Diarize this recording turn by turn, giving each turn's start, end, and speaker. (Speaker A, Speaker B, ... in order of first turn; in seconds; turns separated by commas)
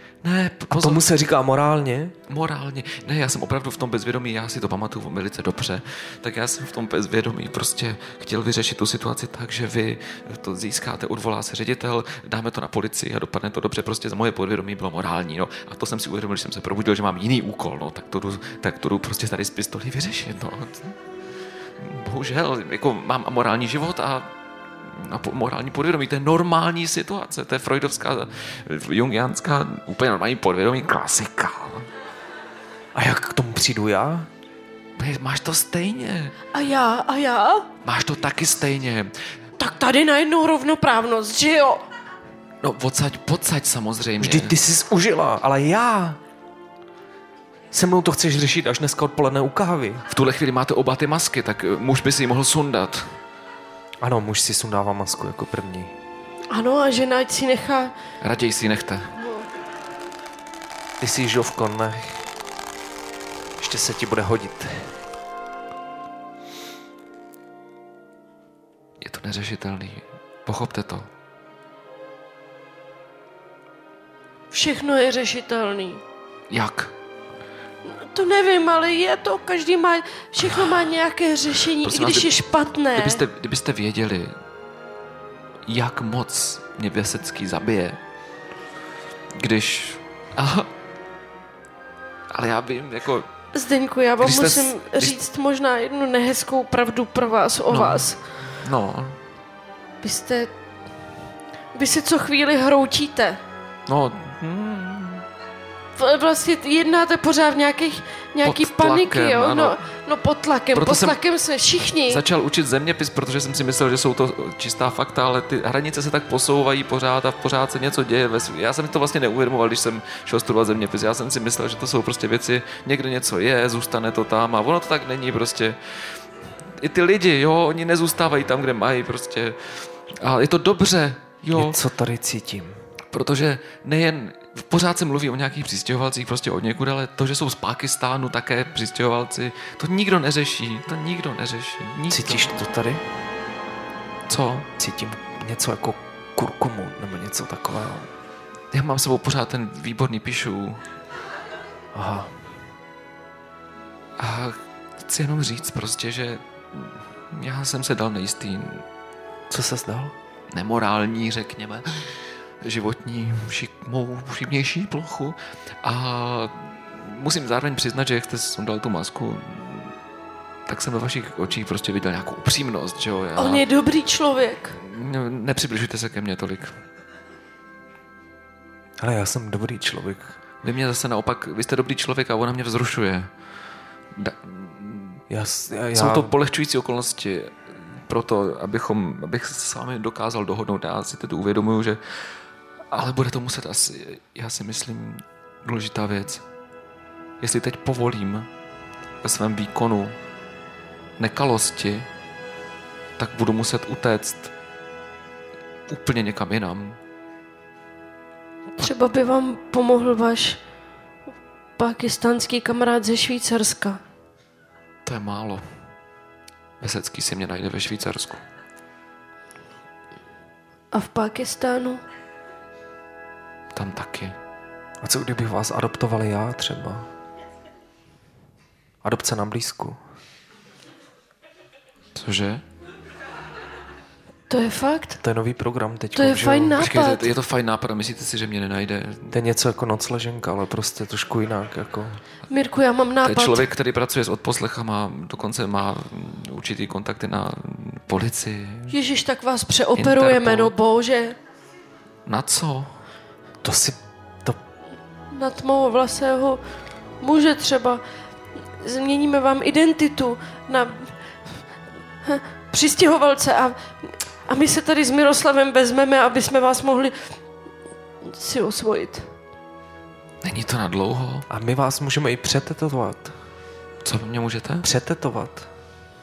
Speaker A: 0.2-1.1, Speaker B: 0.7-2.1, Speaker A: 2.3-21.0, Speaker A: 21.8-24.3, Speaker A: 24.8-31.9, Speaker B: 32.9-34.3, Speaker A: 35.0-36.4, Speaker C: 36.5-37.7, Speaker A: 37.8-39.1, Speaker C: 39.6-41.8, Speaker A: 42.6-44.5, Speaker B: 44.2-46.2, Speaker B: 47.7-50.0, Speaker A: 50.1-53.2, Speaker B: 54.0-55.9, Speaker C: 56.5-57.9, Speaker A: 58.2-59.1, Speaker B: 61.0-62.3, Speaker B: 63.6-64.9, Speaker A: 69.0-71.1, Speaker C: 74.5-76.0, Speaker A: 76.5-76.9, Speaker C: 77.8-83.2, Speaker A: 81.7-82.4, Speaker A: 82.9-84.3, Speaker A: 85.7-88.0, Speaker A: 89.3-90.7, Speaker A: 92.3-93.3, Speaker C: 93.5-98.2, Speaker A: 94.2-95.2, Speaker A: 97.7-99.2, Speaker C: 100.0-100.5, Speaker C: 101.7-103.4, Speaker A: 103.9-105.2, Speaker C: 106.0-112.2, Speaker A: 108.4-109.8, Speaker A: 110.7-111.2, Speaker A: 112.1-126.2, Speaker A: 126.8-131.8, Speaker B: 131.5-132.8, Speaker A: 133.1-142.6, Speaker B: 142.1-143.0, Speaker A: 144.3-144.7, Speaker B: 144.8-148.1, Speaker A: 148.7-150.8, Speaker B: 151.9-152.4, Speaker A: 154.2-158.8, Speaker B: 159.5-160.1, Speaker A: 160.5-169.9, Speaker A: 170.7-173.6, Speaker C: 173.3-174.8, Speaker A: 174.8-176.7, Speaker B: 179.0-180.4, Speaker A: 180.6-183.3, Speaker A: 184.1-185.2, Speaker B: 185.3-186.3, Speaker A: 185.9-196.4, Speaker A: 197.4-198.5, Speaker A: 199.2-200.2, Speaker A: 201.2-202.1, Speaker A: 203.2-204.5, Speaker A: 205.9-207.0, Speaker C: 208.8-210.6, Speaker C: 211.8-214.0, Speaker A: 215.1-215.7, Speaker A: 216.8-218.4, Speaker C: 220.9-222.0, Speaker A: 223.7-224.3, Speaker B: 225.0-227.1, Speaker B: 229.0-230.0, Speaker A: 232.1-232.6, Speaker C: 234.5-235.2, Speaker B: 235.2-236.8, Speaker C: 236.1-237.3, Speaker A: 236.8-239.3, Speaker B: 239.3-242.2, Speaker C: 242.5-243.6, Speaker A: 243.2-248.9, Speaker C: 248.9-251.4, Speaker A: 249.9-250.7, Speaker A: 252.2-253.0, Speaker B: 253.6-254.6, Speaker C: 255.3-256.6, Speaker C: 257.2-258.0, Speaker C: 258.8-261.1, Speaker C: 262.2-267.3, Speaker C: 268.2-269.3, Speaker A: 270.4-271.5, Speaker B: 271.5-273.3, Speaker A: 274.0-274.9, Speaker B: 274.8-275.7